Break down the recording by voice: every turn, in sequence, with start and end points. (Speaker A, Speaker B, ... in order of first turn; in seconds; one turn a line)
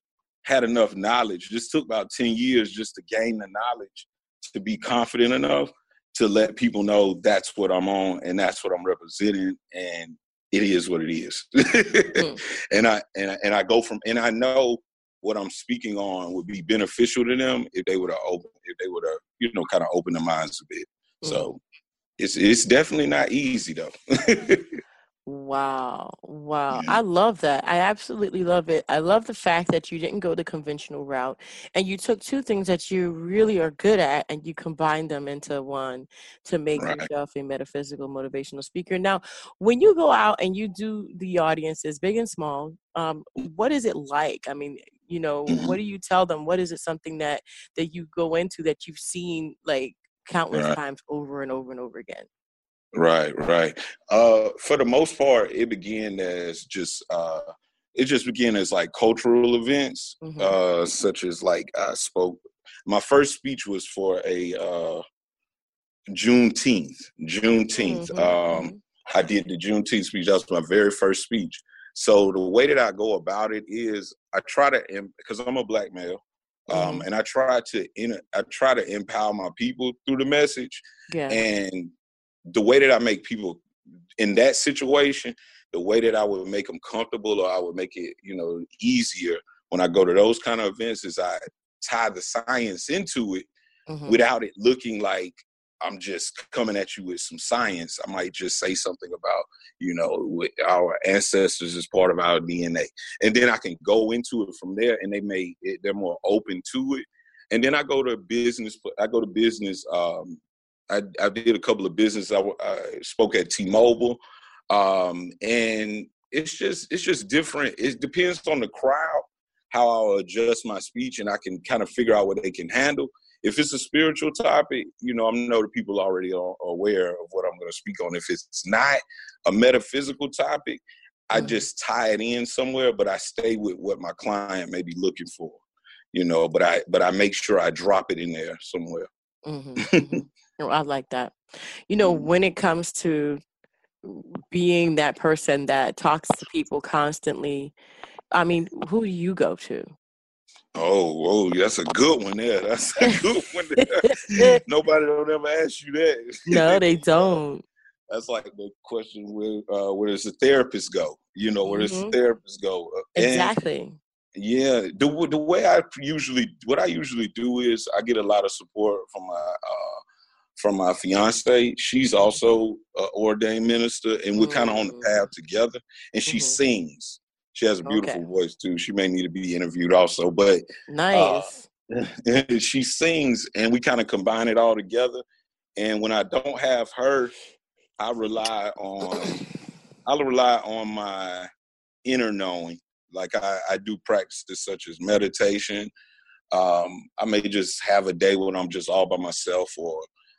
Speaker A: 0.4-21.6
Speaker B: 21.2-21.5
Speaker A: 22.2-24.6
Speaker B: 25.3-52.3
Speaker A: 26.7-27.0
Speaker A: 36.8-37.1
Speaker A: 45.5-45.8
Speaker A: 52.9-65.0
Speaker B: 60.2-60.6
Speaker A: 66.1-81.9
Speaker B: 67.8-68.8
Speaker B: 76.7-77.1
Speaker B: 81.1-81.4
Speaker A: 82.5-83.6
Speaker A: 84.2-93.5
Speaker B: 93.9-94.2
Speaker A: 94.1-135.6
Speaker B: 131.3-131.6
Speaker A: 136.1-139.1
Speaker B: 139.5-141.4
Speaker B: 141.9-143.4
Speaker A: 142.0-142.3
Speaker B: 144.0-147.8
Speaker B: 148.3-149.9
Speaker A: 150.8-157.3
Speaker B: 153.8-154.6
Speaker B: 156.5-157.6
Speaker A: 158.1-163.6
Speaker B: 161.7-162.2
Speaker B: 163.2-164.0
Speaker A: 164.4-170.0
Speaker A: 170.6-185.2
Speaker B: 174.3-175.2
Speaker B: 176.3-176.6
Speaker B: 177.8-178.2
Speaker B: 180.9-181.7
Speaker A: 185.8-187.3
Speaker A: 188.0-189.4
Speaker A: 190.1-191.5
Speaker A: 192.1-195.9
Speaker A: 196.5-200.1